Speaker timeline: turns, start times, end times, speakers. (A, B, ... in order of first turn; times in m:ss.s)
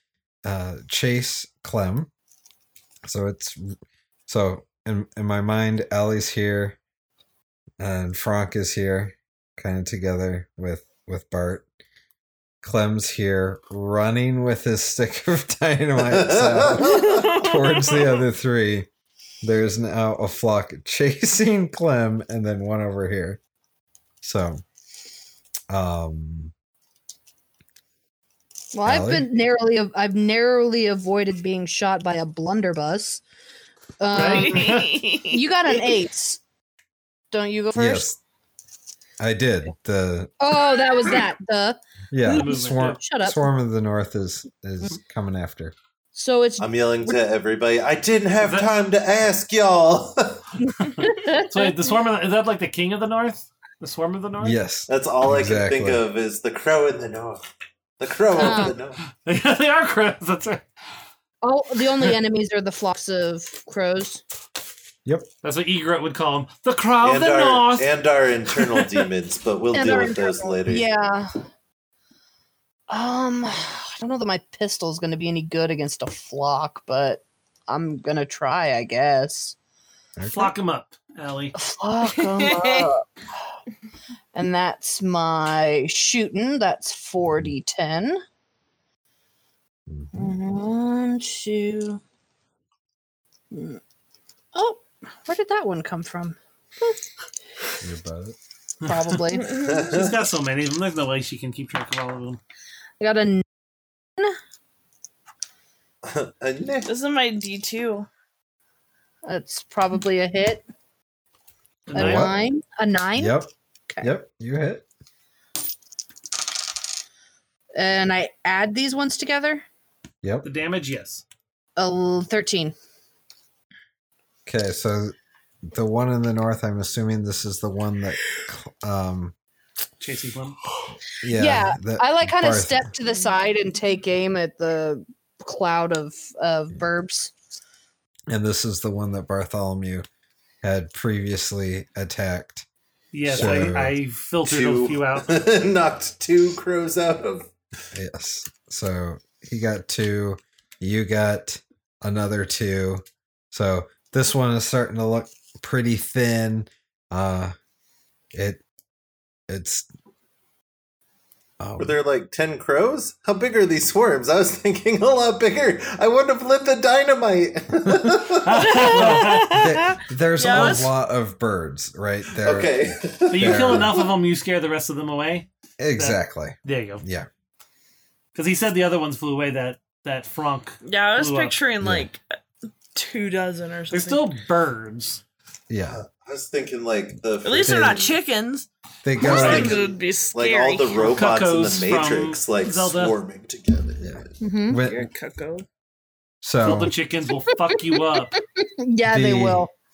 0:00.4-0:02.1 A
0:03.0-0:03.8 A
0:04.3-0:06.8 A
0:07.8-0:11.7 A
0:12.6-0:18.9 A
0:16.0-0:17.4 B
0:17.1-0:18.0 C
0:19.4-0:23.4 A
0:24.2-0:24.6 A
0:25.7-0:26.5 A
0:28.7-0:33.2 D
0:28.8-0:29.2 A
0:34.0-0:34.7 D
0:34.1-0:35.0 E
0:34.1-0:35.4 C
0:35.3-0:36.4 D
0:37.3-0:38.1 D
0:37.7-0:38.2 A
0:39.2-0:40.3 A
0:40.4-0:43.4 D
0:42.1-0:45.7 A
0:42.3-0:43.0 E
0:46.1-0:47.2 D
0:46.6-0:50.9 B
0:48.4-0:48.7 E
0:51.1-0:51.7 D
0:51.4-0:54.6 E
0:54.4-0:56.0 A
0:54.9-0:57.4 B
0:58.0-0:59.0 B
0:58.4-0:58.8 D
0:59.2-1:00.6 E
1:01.4-1:04.2 D
1:05.4-1:07.9 E
1:07.0-1:10.8 B
1:08.5-1:09.0 E
1:09.7-1:11.4 D
1:12.9-1:19.6 D
1:20.2-1:20.5 A
1:20.3-1:21.5 E
1:21.5-1:23.6 D
1:22.4-1:22.8 C
1:24.3-1:28.2 D
1:29.9-1:30.2 A
1:30.1-1:32.0 D
1:33.5-1:33.8 D
1:34.5-1:36.4 D
1:37.8-1:38.4 A
1:38.8-1:39.2 E
1:38.9-1:39.5 D
1:39.3-1:39.9 C
1:39.6-1:40.1 B
1:39.9-1:42.4 E
1:43.0-1:43.4 D
1:46.0-1:46.9 B
1:46.9-1:48.1 C
1:49.2-1:50.6 D
1:51.9-1:52.3 E
1:51.9-1:54.1 D
1:52.0-1:52.3 A
1:53.2-1:53.5 A
1:54.0-1:54.8 A
1:57.7-1:59.6 D
2:00.4-2:01.2 E
2:01.8-2:02.7 D
2:04.4-2:05.1 A
2:05.6-2:09.3 A
2:10.0-2:10.6 E
2:11.2-2:12.9 A
2:11.3-2:17.3 D
2:18.3-2:20.0 A
2:20.6-2:22.6 A
2:23.1-2:25.3 E
2:23.3-2:23.9 A
2:23.3-2:23.8 B
2:24.4-2:27.5 B
2:27.9-2:37.5 A
2:38.3-2:38.6 A
2:39.5-2:39.9 A
2:41.6-2:42.0 A
2:41.8-2:48.9 B
2:48.4-2:49.6 E
2:48.7-2:50.9 C
2:48.9-2:52.8 A
2:52.4-2:53.9 B
2:53.3-2:57.0 E
2:53.4-2:53.9 A
2:55.8-2:57.3 A
2:58.3-3:01.6 E
3:00.8-3:02.2 C
3:01.8-3:02.1 A
3:02.9-3:04.2 C
3:03.9-3:05.2 E
3:05.7-3:06.0 A
3:05.9-3:08.1 B
3:07.4-3:08.7 C
3:07.6-3:08.0 A
3:09.0-3:09.8 A
3:09.2-3:11.0 C
3:09.2-3:14.3 B
3:09.2-3:09.7 E
3:11.0-3:13.2 E
3:14.0-3:15.1 A
3:14.4-3:14.8 D
3:14.8-3:15.6 C
3:16.4-3:16.9 A
3:16.6-3:18.3 E
3:18.6-3:19.7 D
3:19.1-3:19.7 A